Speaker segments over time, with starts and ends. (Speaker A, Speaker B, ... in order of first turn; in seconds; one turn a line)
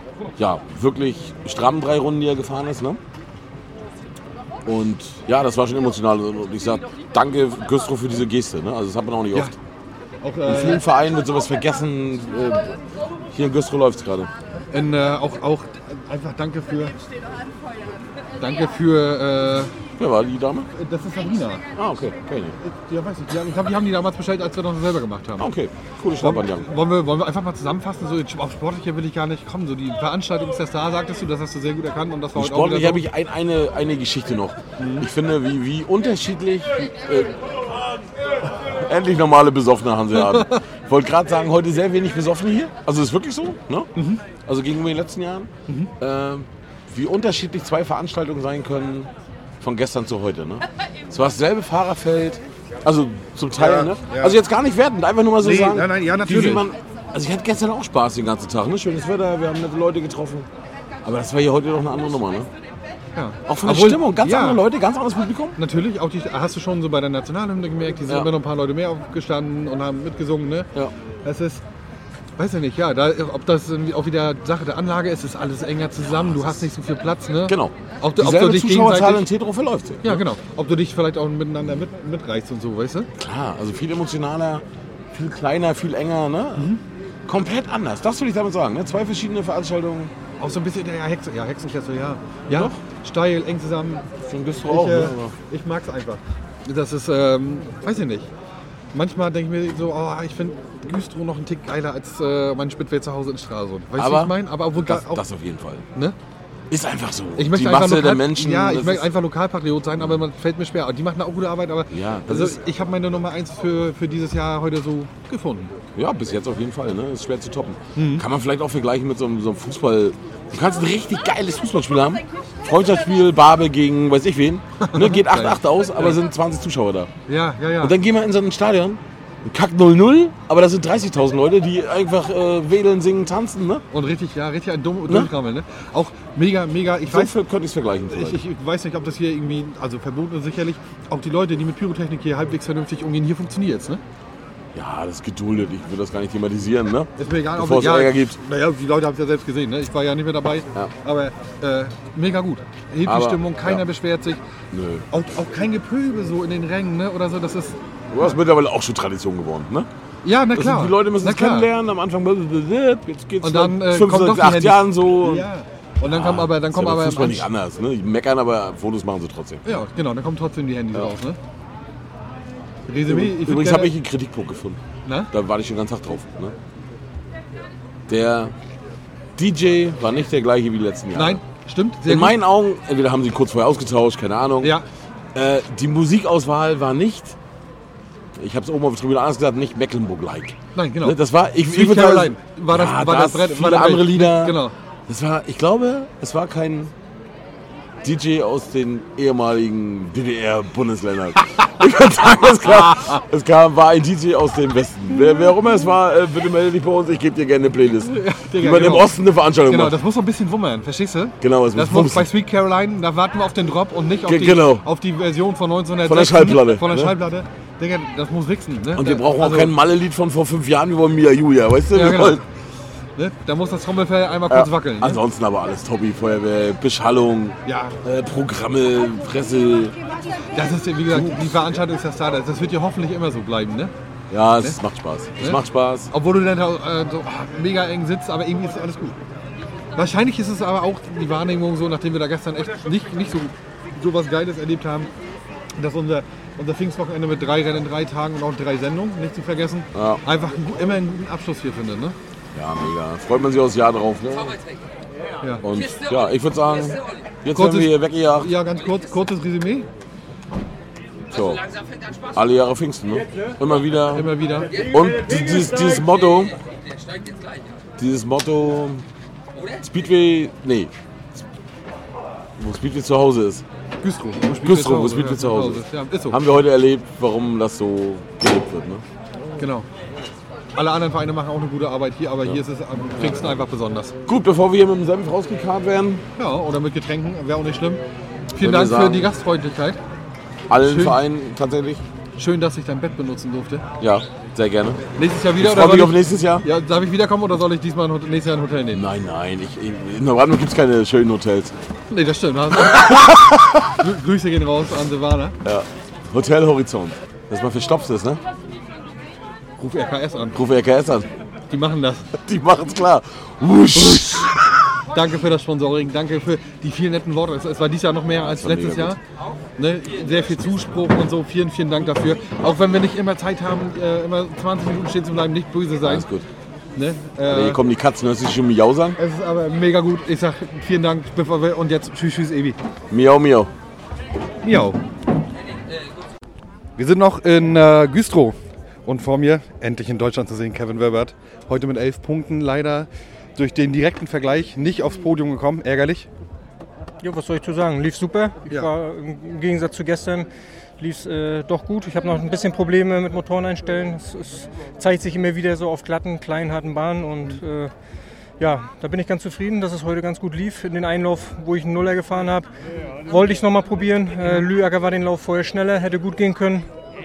Speaker A: 0.4-3.0
Speaker A: 4.7-9.5
Speaker B: 10.2-10.8
Speaker A: 10.5-12.8
Speaker A: 13.3-14.3
Speaker B: 14.7-17.0
Speaker B: 18.4-19.7
Speaker A: 20.0-20.7
Speaker B: 20.8-21.6
Speaker A: 21.8-22.6
Speaker B: 22.6-25.5
Speaker A: 25.4-26.7
Speaker B: 26.2-33.0
Speaker A: 32.4-37.8
Speaker B: 34.8-35.1
Speaker A: 38.4-43.9
Speaker B: 40.3-40.6
Speaker B: 44.0-44.2
Speaker A: 44.5-49.1
Speaker A: 49.6-60.5
Speaker B: 53.6-54.4
Speaker B: 55.4-56.7
Speaker A: 61.0-62.5
Speaker B: 63.1-64.6
Speaker A: 63.5-65.6
Speaker B: 65.6-70.7
Speaker B: 71.2-71.6
Speaker B: 72.4-79.3
Speaker A: 76.1-76.6
Speaker A: 77.5-80.2
Speaker B: 80.0-83.1
Speaker A: 83.2-86.7
Speaker A: 87.3-90.1
Speaker B: 90.4-94.1
Speaker A: 92.5-92.8
Speaker A: 94.2-95.3
Speaker B: 94.7-98.3
Speaker B: 98.9-105.2
Speaker A: 104.0-105.8
Speaker A: 106.7-109.1
Speaker B: 107.4-115.7
Speaker A: 111.9-112.6
Speaker A: 116.0-127.1
Speaker B: 118.0-118.3
Speaker B: 124.8-126.2
Speaker B: 127.3-128.0
Speaker A: 127.8-133.8
Speaker B: 133.9-137.3
Speaker A: 137.1-138.4
Speaker B: 138.1-144.0
Speaker A: 144.7-148.4
Speaker B: 147.2-154.4
Speaker A: 153.1-153.8
Speaker A: 154.7-155.1
Speaker B: 155.1-158.4
Speaker A: 158.1-159.9
Speaker B: 160.2-161.7
Speaker A: 160.5-165.5
Speaker B: 163.4-167.5
Speaker A: 166.1-169.7
Speaker B: 169.7-171.4
Speaker B: 172.9-173.9
Speaker A: 173.1-174.8
Speaker B: 175.1-175.3
Speaker A: 175.3-176.6
Speaker A: 178.1-178.5
Speaker A: 179.4-181.4
Speaker B: 181.1-182.4
Speaker A: 182.1-184.8
Speaker B: 184.6-184.9
Speaker A: 185.3-187.4
Speaker A: 188.4-196.9
Speaker B: 190.8-194.7
Speaker A: 198.0-210.0
Speaker B: 202.8-203.2
Speaker B: 208.0-209.1
Speaker B: 209.7-219.7
Speaker A: 211.4-212.3
Speaker A: 214.2-214.9
Speaker A: 216.0-217.2
Speaker A: 218.9-222.4
Speaker B: 221.9-222.4
Speaker B: 223.2-225.2
Speaker A: 224.5-230.0
Speaker B: 227.7-228.0
Speaker B: 230.5-233.9
Speaker A: 231.1-231.5
Speaker A: 234.3-236.1
Speaker B: 235.4-239.2
Speaker B: 240.0-245.1
Speaker B: 245.8-252.2
Speaker A: 249.9-250.2
Speaker A: 252.6-254.6
Speaker A: 255.6-258.5
Speaker B: 257.5-259.9
Speaker A: 261.3-261.6
Speaker A: 262.3-266.6
Speaker B: 264.1-264.8
Speaker A: 268.0-269.0
Speaker A: 269.7-270.9
Speaker A: 272.6-273.6
Speaker B: 274.0-276.5
Speaker A: 274.5-279.0
Speaker B: 279.6-279.9
Speaker B: 280.8-284.2
Speaker A: 283.2-283.5
Speaker A: 284.3-286.2
Speaker B: 286.4-290.0
Speaker A: 288.6-289.3
Speaker A: 290.7-292.0
Speaker B: 290.8-291.2
Speaker B: 292.4-293.9
Speaker A: 294.0-295.1
Speaker B: 295.2-299.1
Speaker A: 295.6-296.7
Speaker A: 298.9-301.7
Speaker B: 302.1-305.6
Speaker A: 305.6-308.4
Speaker B: 309.8-310.6
Speaker A: 310.5-311.3
Speaker B: 311.7-312.3
Speaker A: 312.4-314.7
Speaker B: 313.9-314.5
Speaker B: 315.1-319.2
Speaker A: 318.4-319.2
Speaker B: 319.8-326.3
Speaker A: 326.0-326.5
Speaker B: 326.9-327.8
Speaker A: 327.5-329.2
Speaker B: 329.2-332.8
Speaker A: 333.1-333.7
Speaker B: 334.6-335.0
Speaker B: 337.0-346.3
Speaker C: 347.2-350.5
Speaker C: 351.0-357.9
Speaker C: 358.6-362.7
Speaker C: 363.3-366.9